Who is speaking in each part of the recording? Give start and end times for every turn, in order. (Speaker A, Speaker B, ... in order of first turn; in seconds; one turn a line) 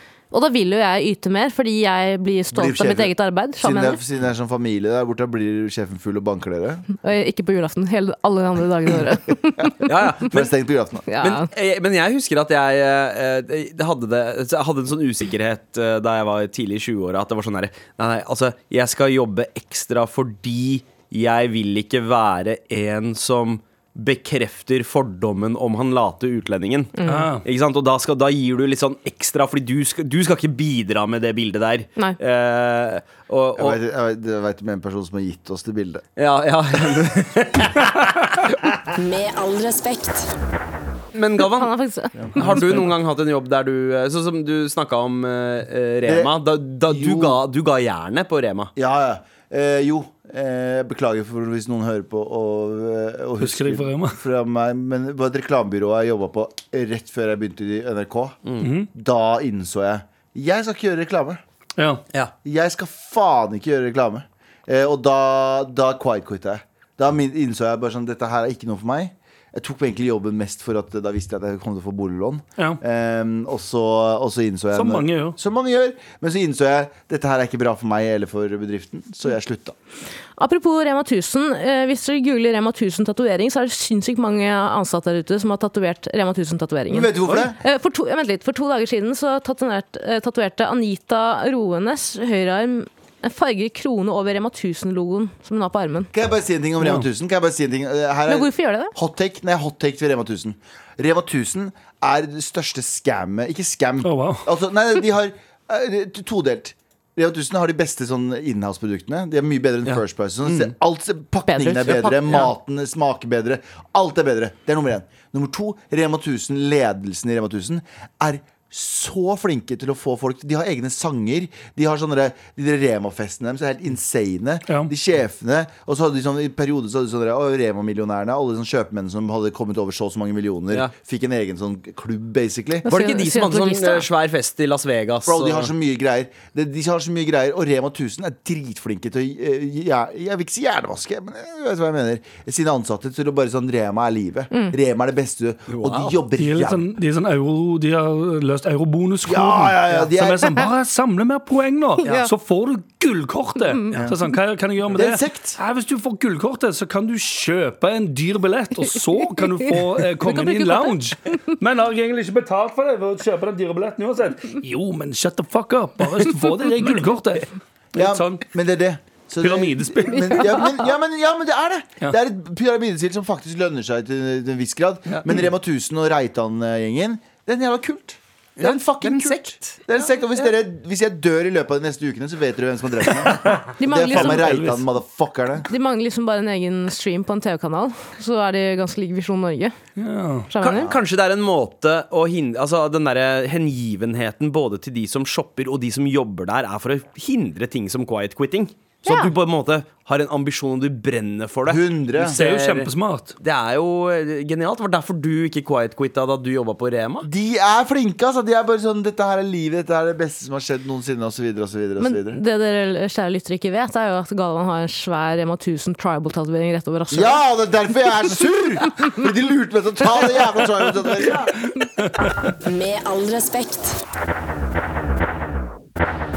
Speaker A: 0.3-4.0
Speaker B: 2.5-6.8
Speaker A: 7.0-9.9
Speaker B: 9.6-11.0
Speaker C: 9.8-10.5
Speaker A: 11.1-11.5
Speaker C: 11.2-33.8
Speaker A: 27.0-27.3
Speaker D: 27.0-27.4
Speaker B: 33.5-36.0
Speaker C: 36.2-38.6
Speaker E: 38.9-40.3
Speaker C: 41.1-41.7
Speaker A: 41.4-42.8
Speaker C: 42.4-48.7
Speaker D: 42.4-42.9
Speaker B: 46.0-46.3
Speaker B: 46.8-47.4
Speaker B: 48.8-58.4
Speaker D: 53.4-54.2
Speaker D: 58.6-58.9
Speaker B: 58.9-61.4
Speaker D: 61.8-62.0
Speaker B: 62.4-79.8
Speaker D: 74.7-75.3
Speaker A: 80.4-96.1
Speaker B: 86.9-87.6
Speaker B: 96.1-132.8
Speaker A: 98.3-98.9
Speaker D: 104.0-104.5
Speaker C: 109.8-110.7
Speaker A: 111.5-112.5
Speaker C: 111.8-112.4
Speaker A: 132.8-134.0
Speaker C: 132.9-135.7
Speaker B: 135.2-146.9
Speaker C: 145.7-146.2
Speaker D: 146.4-168.4
Speaker B: 149.2-150.7
Speaker A: 152.0-152.3
Speaker A: 153.7-153.9
Speaker B: 154.9-155.6
Speaker A: 159.4-159.7
Speaker A: 160.2-160.9
Speaker B: 167.9-185.7
Speaker D: 169.4-170.7
Speaker A: 170.1-170.9
Speaker C: 178.6-179.8
Speaker A: 183.8-184.6
Speaker D: 184.1-184.8
Speaker A: 185.7-189.8
Speaker D: 190.0-190.5
Speaker A: 190.5-190.9
Speaker C: 190.6-207.3
Speaker B: 190.7-191.0
Speaker A: 199.0-199.3
Speaker B: 201.7-202.4
Speaker D: 202.2-203.3
Speaker B: 207.2-212.4
Speaker A: 212.0-217.4
Speaker B: 217.1-221.5
Speaker D: 221.8-222.4
Speaker E: 222.6-224.0